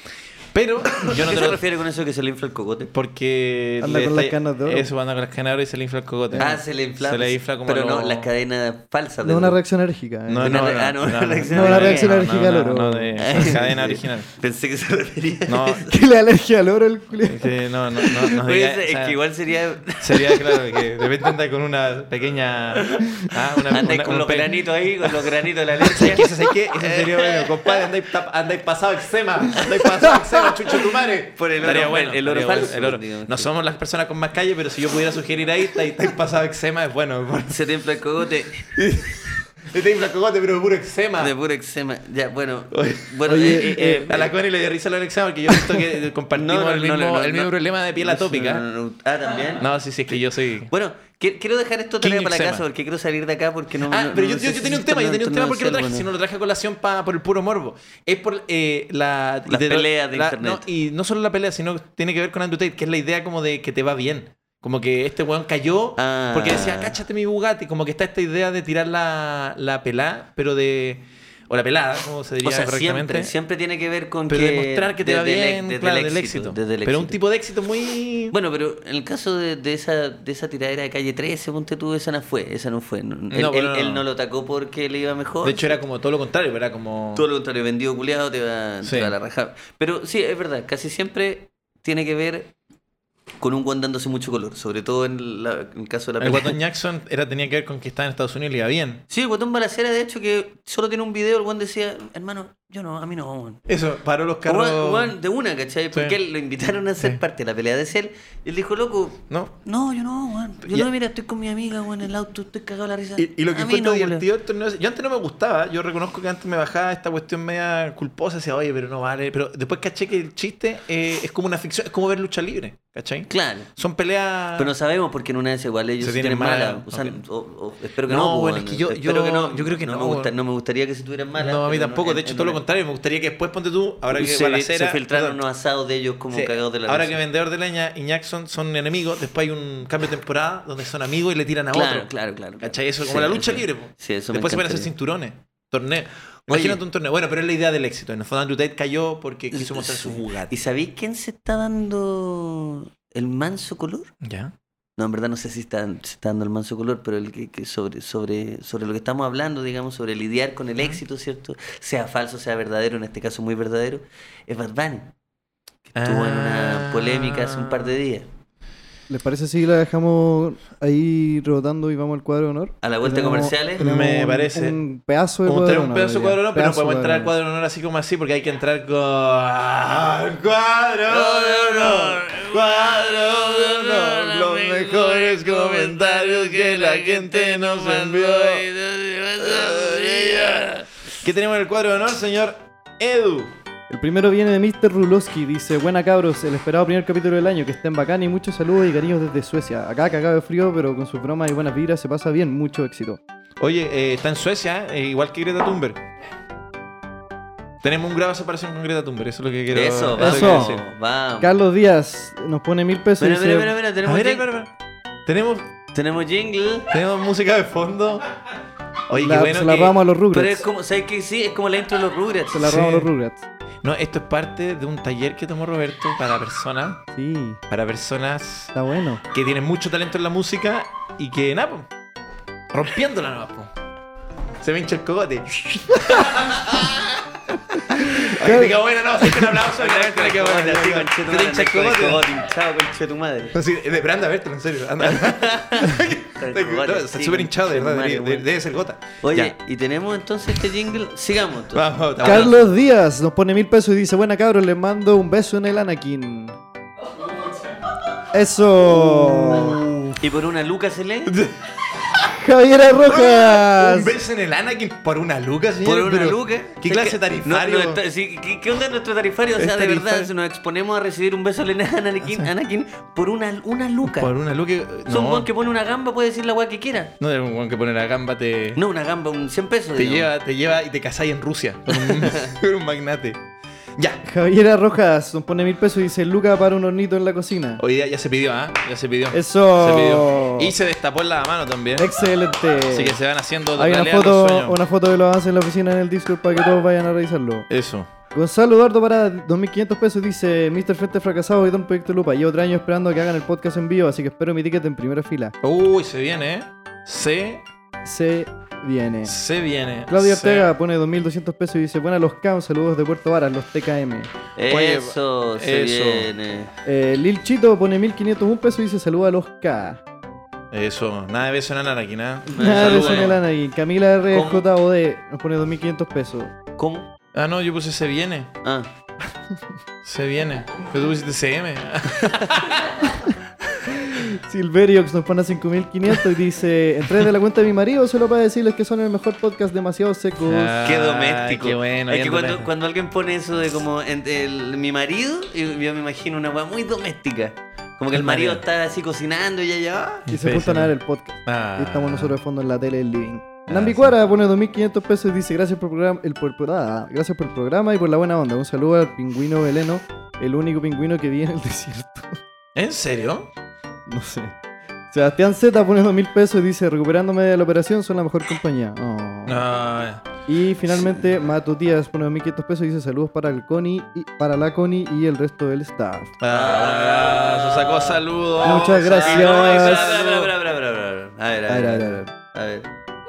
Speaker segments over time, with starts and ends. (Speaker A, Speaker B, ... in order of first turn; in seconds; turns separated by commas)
Speaker A: 0.5-1.6, Speaker B: 1.0-2.9, Speaker A: 2.9-8.3, Speaker C: 3.8-4.9, Speaker C: 6.3-6.6, Speaker B: 6.3-9.6, Speaker C: 9.2-10.7, Speaker A: 10.3-14.3, Speaker B: 10.4-12.2, Speaker C: 11.5-13.7, Speaker B: 13.2-15.9, Speaker A: 15.5-15.9, Speaker C: 15.9-17.6, Speaker A: 17.2-19.2, Speaker B: 18.0-20.9, Speaker A: 19.9-25.3, Speaker B: 22.7-27.9, Speaker A: 25.9-37.7, Speaker B: 29.6-30.1, Speaker B: 31.3-33.5, Speaker B: 37.5-38.7, Speaker A: 38.7-41.3, Speaker B: 41.2-44.3, Speaker A: 42.7-48.6, Speaker C: 43.3-44.2, Speaker B: 46.3-49.7, Speaker A: 49.5-50.7, Speaker B: 50.7-56.1, Speaker A: 52.0-52.6, Speaker A: 53.9-73.3, Speaker B: 59.5-60.6, Speaker B: 66.0-67.0, Speaker B: 72.4-77.2, Speaker A: 74.3-78.3, Speaker B: 78.3-85.8, Speaker A: 83.3-84.0, Speaker A: 85.4-87.3, Speaker B: 87.1-92.5, Speaker A: 88.8-89.1, Speaker B: 93.4-96.6, Speaker A: 96.2-99.0, Speaker B: 99.1-103.6, Speaker A: 103.7-105.1, Speaker B: 104.5-114.3, Speaker A: 105.9-106.2, Speaker A: 113.2-124.7, Speaker B: 123.3-123.7, Speaker B: 124.5-132.6, Speaker A: 126.0-127.2, Speaker A: 128.1-130.3, Speaker A: 131.4-135.4, Speaker B: 134.1-137.2, Speaker A: 136.3-142.1, Speaker B: 141.7-144.9, Speaker A: 142.6-150.5, Speaker B: 146.5-146.8, Speaker B: 149.5-154.1, Speaker A: 154.2-154.6, Speaker B: 155.0-165.1, Speaker B: 165.9-168.3, Speaker A: 165.9-168.0, Speaker C: 169.1-177.3, Speaker B: 172.8-173.8, Speaker A: 173.8-174.8, Speaker A: 175.4-188.7, Speaker B: 181.1-190.9, Speaker A: 189.4-193.6, Speaker C: 193.9-203.2, Speaker A: 203.6-206.1, Speaker A: 207.8-210.8, Speaker B: 209.7-211.5, Speaker C: 210.2-210.8, Speaker C: 211.4-213.7, Speaker B: 213.2-214.5, Speaker A: 214.0-214.7, Speaker A: 215.3-215.7, Speaker B: 215.9-216.9, Speaker A: 216.9-218.3, Speaker A: 219.1-219.9, Speaker C: 219.1-220.7, Speaker B: 220.3-222.8, Speaker C: 222.5-223.4, Speaker A: 222.6-223.1, Speaker A: 223.8-227.0, Speaker C: 227.1-227.6, Speaker A: 227.7-228.7, Speaker C: 228.7-229.2, Speaker A: 229.3-231.9, Speaker A: 232.7-233.7, Speaker A: 234.6-242.3, Speaker C: 237.8-238.8, Speaker B: 239.6-243.6, Speaker A: 243.5-249.6, Speaker B: 245.0-248.5, Speaker B: 249.2-252.5, Speaker A: 251.7-252.6, Speaker C: 252.2-256.6, Speaker C: 258.3-260.0, Speaker A: 258.9-260.1, Speaker B: 260.2-261.4, Speaker A: 261.3-262.3, Speaker C: 262.2-264.2, Speaker A: 263.1-268.0, Speaker B: 265.8-274.3, Speaker A: 269.6-270.3, Speaker A: 272.2-272.5, Speaker A: 274.0-275.5, Speaker B: 275.1-277.1, Speaker A: 277.2-278.8, Speaker B: 278.8-280.3, Speaker A: 279.9-283.4, Speaker B: 281.9-282.6, Speaker A: 283.9-284.2, Speaker C: 284.2-287.8, Speaker A: 287.8-292.1, Speaker C: 289.3-290.7, Speaker C: 291.9-293.2, Speaker A: 292.9-294.8, Speaker C: 293.7-297.7, Speaker A: 297.7-298.1, Speaker C: 298.3-305.5, Speaker A: 305.6-307.6, Speaker C: 308.0-309.4, Speaker A: 309.3-310.7, Speaker C: 310.1-314.3, Speaker B: 314.6-316.7, Speaker A: 314.7-316.3, Speaker C: 316.9-320.0, Speaker A: 320.7-323.4, Speaker B: 322.5-323.4, Speaker C: 322.6-326.6, Speaker B: 324.3-324.6, Speaker B: 326.8-327.1, Speaker A: 327.3-328.5, Speaker B: 328.6-328.9, Speaker A: 330.0-333.1, Speaker C: 333.9-340.8, Speaker A: 340.5-342.7, Speaker B: 340.8-350.3, Speaker A: 348.1-348.6, Speaker A: 350.3-350.9, Speaker C: 350.3-362.4, Speaker A: 351.4-352.4, Speaker A: 353.7-354.1, Speaker A: 362.7-363.5, Speaker C: 364.1-364.5, Speaker C: 365.1-369.6, Speaker A: 369.4-370.3, Speaker C: 370.5-376.3, Speaker A: 376.4-380.2, Speaker B: 376.5-382.9, Speaker C: 378.6-380.5, Speaker C: 381.7-382.3